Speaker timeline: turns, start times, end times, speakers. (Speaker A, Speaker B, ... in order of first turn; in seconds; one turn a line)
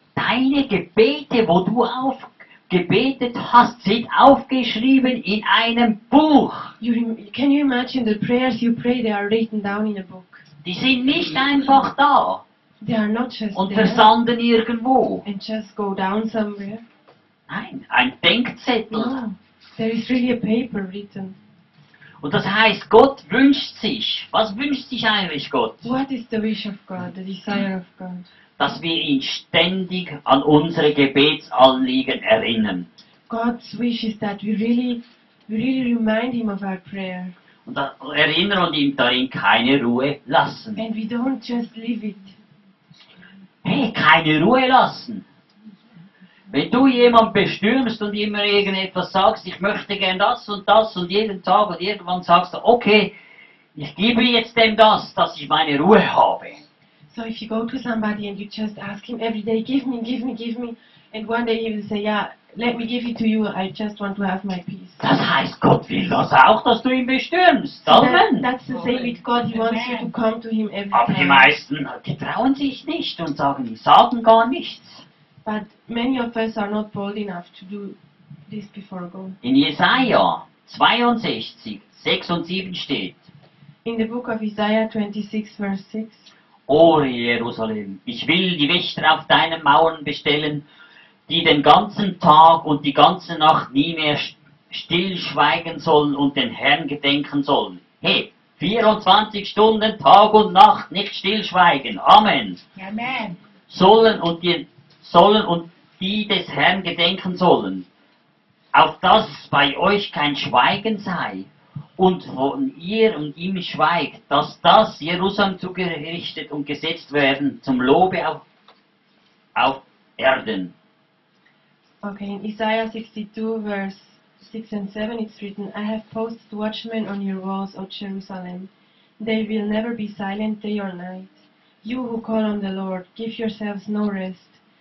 Speaker A: 0.2-6.8
Speaker B: 6.8-10.4
Speaker A: 10.6-12.4
Speaker B: 12.8-14.1
Speaker A: 13.5-15.2
Speaker B: 15.2-16.8
Speaker A: 17.5-19.2
Speaker B: 18.9-21.4
Speaker A: 22.2-25.9
Speaker B: 25.8-28.3
Speaker A: 28.6-32.9
Speaker B: 33.3-37.3
Speaker A: 37.7-40.8
Speaker B: 40.8-42.4
Speaker A: 43.6-45.2
Speaker A: 46.5-53.1
Speaker A: 53.8-56.6
Speaker B: 57.1-65.0
Speaker A: 65.0-68.5
Speaker B: 67.8-71.5
Speaker C: 68.7-70.1
Speaker A: 70.9-75.0
Speaker B: 75.5-78.0
Speaker B: 78.5-79.4
Speaker A: 79.4-83.2
Speaker B: 83.8-86.3
Speaker A: 86.7-90.7
Speaker A: 91.3-102.6
Speaker C: 102.8-103.4
Speaker A: 103.7-107.9
Speaker A: 108.7-118.4
Speaker A: 119.5-120.7
Speaker B: 122.0-134.6